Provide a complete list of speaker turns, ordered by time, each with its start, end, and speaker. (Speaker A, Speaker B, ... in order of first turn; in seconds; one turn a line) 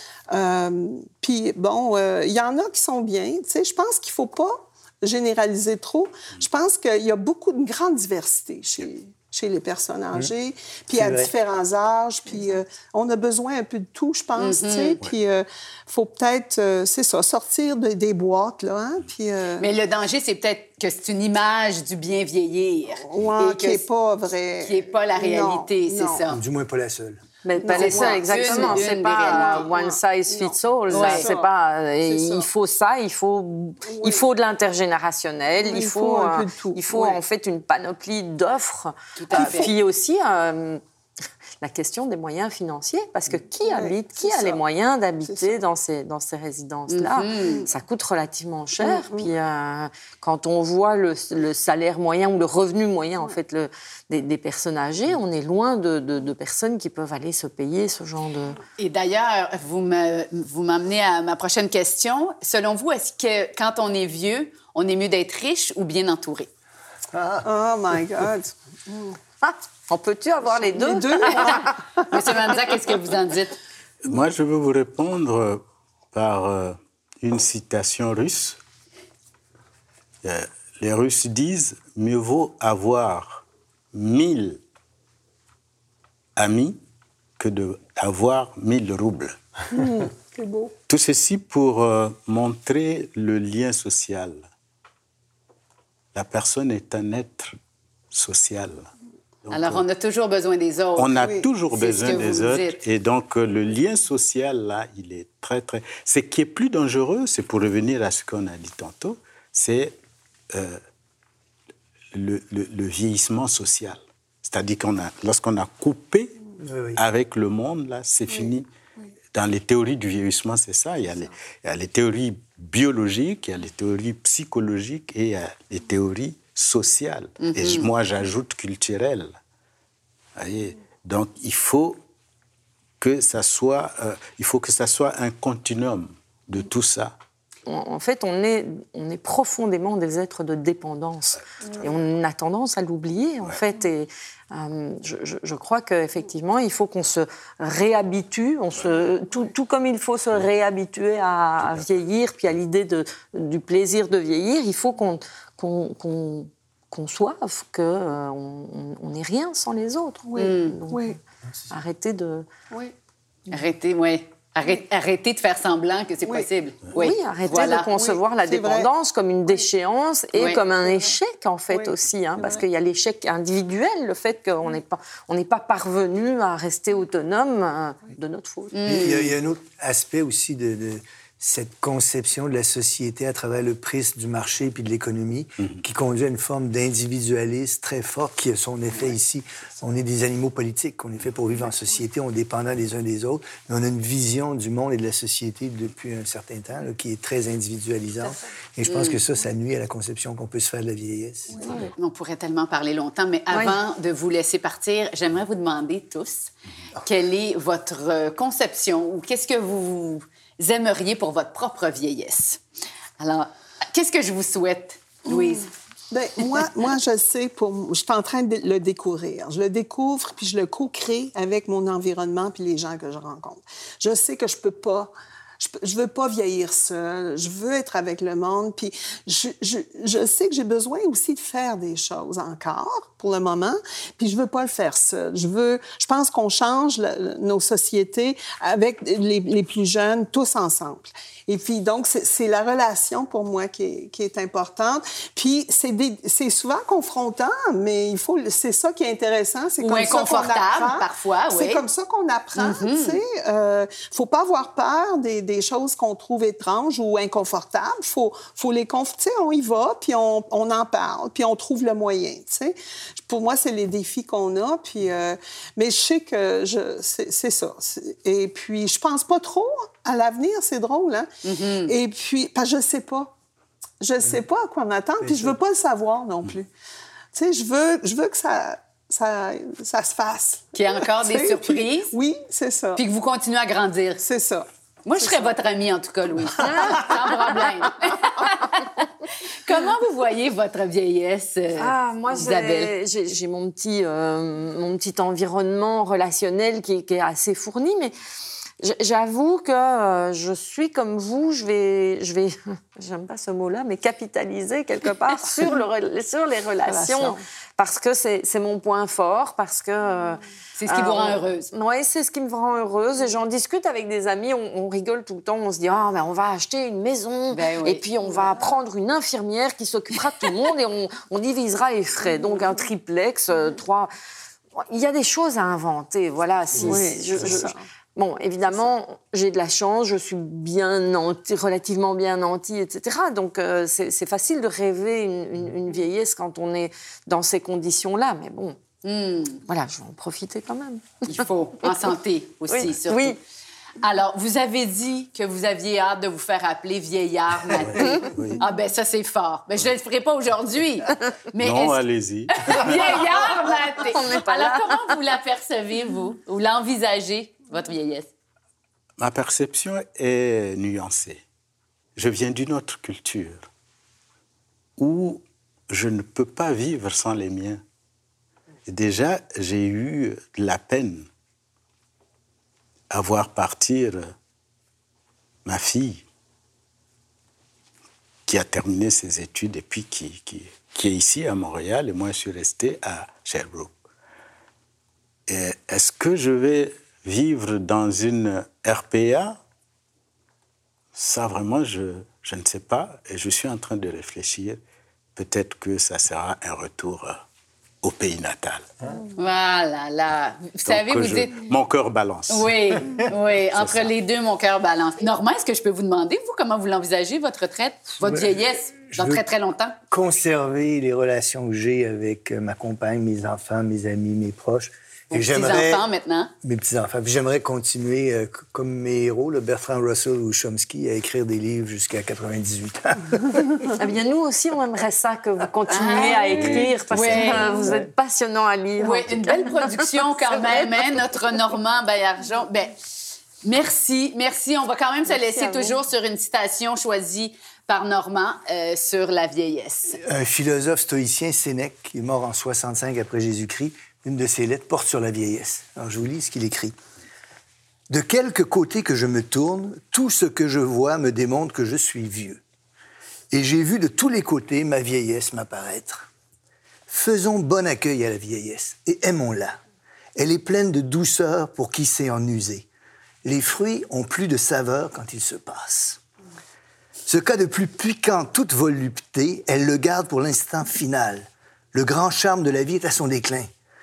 Speaker A: 0.3-19.7
Speaker B: 10.9-11.3
Speaker C: 14.4-15.0
Speaker C: 19.6-23.9
Speaker A: 23.0-26.2
Speaker C: 24.6-26.4
Speaker B: 26.3-27.2
Speaker D: 27.4-40.8
Speaker A: 27.6-31.5
Speaker C: 27.6-29.7
Speaker C: 30.9-31.3
Speaker A: 32.0-32.5
Speaker A: 33.9-34.2
Speaker A: 35.6-37.2
Speaker C: 39.2-39.7
Speaker A: 39.4-39.7
Speaker D: 41.6-58.6
Speaker A: 43.7-44.6
Speaker A: 45.3-45.6
Speaker C: 46.9-47.7
Speaker A: 48.8-49.3
Speaker C: 58.8-66.5
Speaker B: 67.1-67.5
Speaker A: 67.4-69.2
Speaker D: 69.4-71.7
Speaker A: 70.6-72.0
Speaker C: 71.3-73.6
Speaker E: 74.0-78.6
Speaker E: 80.2-84.6
Speaker E: 86.4-86.8
Speaker E: 87.4-89.4
Speaker A: 89.7-90.7
Speaker E: 90.9-94.5
Speaker E: 96.1-97.6
Speaker E: 98.1-98.9
Speaker E: 99.5-99.8
Speaker C: 99.5-102.8
Speaker E: 101.0-110.0
Speaker E: 110.5-110.8
Speaker E: 112.1-116.4
Speaker B: 116.6-117.0
Speaker E: 117.0-118.7
Speaker E: 119.3-129.4
Speaker C: 127.4-127.9
Speaker E: 130.4-132.0
Speaker E: 133.0-137.2
Speaker D: 137.7-161.2
Speaker A: 160.3-161.2
Speaker C: 160.4-160.8
Speaker D: 161.7-162.5
Speaker C: 163.5-168.0
Speaker D: 166.9-178.8
Speaker A: 168.0-168.9
Speaker C: 170.4-170.6
Speaker A: 171.7-172.6
Speaker C: 178.7-179.3
Speaker B: 178.9-201.8
Speaker C: 198.9-199.2
Speaker C: 202.0-212.6
Speaker D: 203.5-203.8
Speaker C: 213.2-215.7
Speaker A: 216.1-271.3
Speaker C: 249.8-251.8
Speaker C: 252.6-253.2
Speaker C: 271.4-271.9
Speaker A: 271.8-273.3
Speaker A: 274.0-276.7
Speaker B: 275.2-275.6
Speaker A: 277.3-283.0
Speaker C: 280.8-282.1
Speaker C: 283.0-284.2
Speaker A: 284.2-284.7
Speaker C: 285.1-289.1
Speaker C: 289.6-292.9
Speaker D: 291.8-298.2
Speaker D: 298.8-324.1
Speaker A: 306.9-307.4
Speaker C: 310.8-311.7
Speaker C: 317.5-318.0
Speaker D: 324.8-338.8
Speaker A: 326.8-327.9
Speaker C: 339.0-339.6
Speaker D: 339.7-341.9
Speaker C: 341.2-343.4
Speaker D: 342.7-343.4
Speaker C: 344.0-358.3
Speaker E: 347.8-348.6
Speaker D: 347.9-348.3
Speaker E: 351.6-353.4
Speaker D: 354.1-355.1
Speaker E: 359.2-361.4
Speaker E: 362.2-363.7
Speaker E: 365.0-367.8
Speaker E: 368.9-371.3
Speaker E: 373.1-374.3
Speaker E: 375.6-376.2
Speaker E: 378.5-383.9
Speaker E: 385.5-389.6
Speaker E: 391.1-394.8
Speaker E: 395.4-397.4
Speaker E: 398.0-398.9
Speaker C: 399.4-401.7
Speaker E: 400.9-404.1
Speaker C: 402.5-410.0
Speaker B: 409.1-409.4
Speaker B: 410.1-416.1
Speaker C: 415.3-416.5
Speaker B: 416.6-423.9
Speaker D: 424.0-430.8
Speaker C: 425.9-428.0
Speaker E: 426.6-427.6
Speaker C: 429.0-433.0
Speaker C: 433.6-440.2
Speaker D: 435.4-435.9
Speaker B: 440.2-446.9
Speaker B: 448.1-452.6
Speaker B: 453.5-456.3
Speaker B: 457.1-459.8
Speaker B: 460.4-462.9
Speaker B: 463.4-466.2
Speaker B: 467.3-473.7